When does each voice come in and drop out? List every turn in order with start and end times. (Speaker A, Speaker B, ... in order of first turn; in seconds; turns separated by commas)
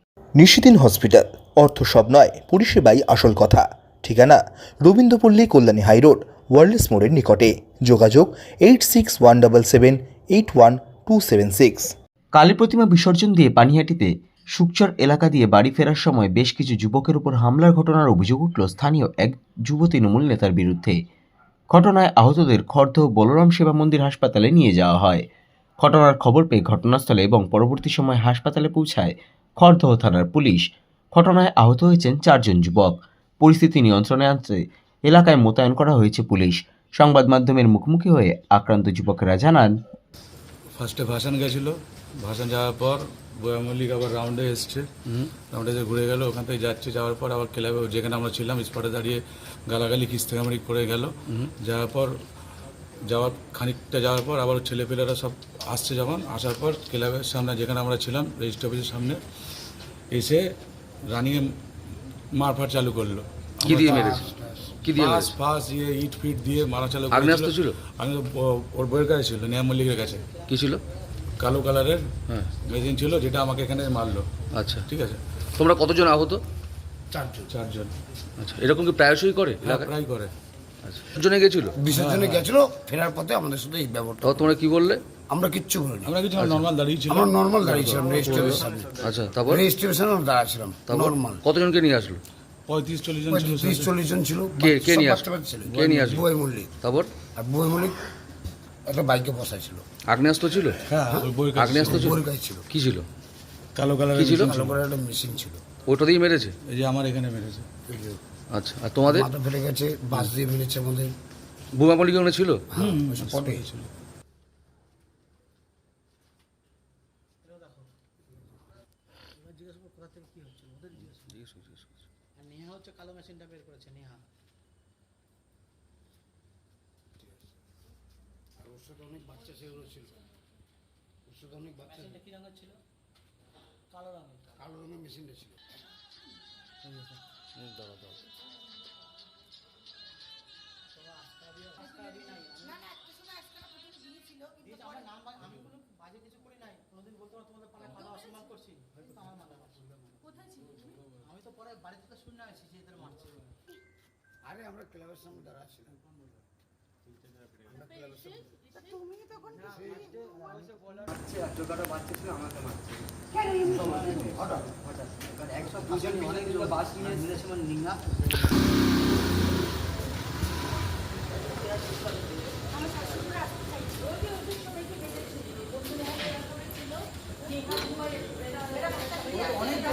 Speaker A: 0.3-11.9, Speaker B: 12.3-21.0, Speaker B: 21.7-25.2, Speaker B: 25.8-39.8, Speaker C: 40.8-44.9, Speaker D: 45.0-45.3, Speaker C: 45.5-52.1, Speaker C: 53.1-59.2, Speaker C: 60.1-60.4, Speaker C: 61.1-61.5, Speaker C: 62.4-64.1, Speaker E: 63.6-64.7, Speaker D: 63.9-65.3, Speaker C: 64.9-70.3, Speaker D: 67.1-67.8, Speaker D: 70.4-70.8, Speaker C: 71.4-74.3, Speaker D: 72.3-72.5, Speaker D: 74.5-74.9, Speaker C: 74.9-75.2, Speaker D: 75.5-76.4, Speaker E: 77.1-77.5, Speaker C: 77.5-77.9, Speaker D: 78.4-79.9, Speaker C: 79.6-80.3, Speaker D: 80.8-81.8, Speaker E: 81.8-84.5, Speaker C: 81.9-82.5, Speaker D: 84.2-85.0, Speaker E: 85.3-86.2, Speaker C: 86.0-88.7, Speaker E: 87.1-89.0, Speaker D: 87.8-89.6, Speaker E: 89.5-91.4, Speaker D: 90.8-92.2, Speaker C: 92.7-94.0, Speaker E: 93.3-96.7, Speaker D: 94.5-96.2, Speaker D: 96.8-97.1, Speaker E: 97.3-98.0, Speaker E: 98.8-99.8, Speaker D: 100.1-100.8, Speaker C: 100.8-102.2, Speaker E: 101.1-102.6, Speaker D: 101.5-102.1, Speaker D: 102.7-103.1, Speaker C: 103.7-104.8, Speaker D: 104.1-104.5, Speaker E: 104.4-105.6, Speaker D: 105.8-106.6, Speaker C: 106.6-107.7, Speaker E: 107.8-108.2, Speaker D: 108.5-109.3, Speaker E: 109.1-111.2, Speaker D: 111.7-112.8, Speaker E: 112.7-113.7, Speaker C: 112.8-113.9, Speaker D: 121.0-121.9, Speaker F: 122.7-123.8, Speaker E: 128.6-130.2, Speaker E: 131.2-132.2, Speaker E: 134.6-135.6, Speaker D: 137.6-138.1, Speaker F: 144.9-145.7, Speaker F: 148.2-148.6, Speaker F: 149.1-149.7, Speaker F: 152.3-152.6, Speaker E: 154.4-156.0, Speaker E: 157.7-158.3, Speaker E: 159.6-160.1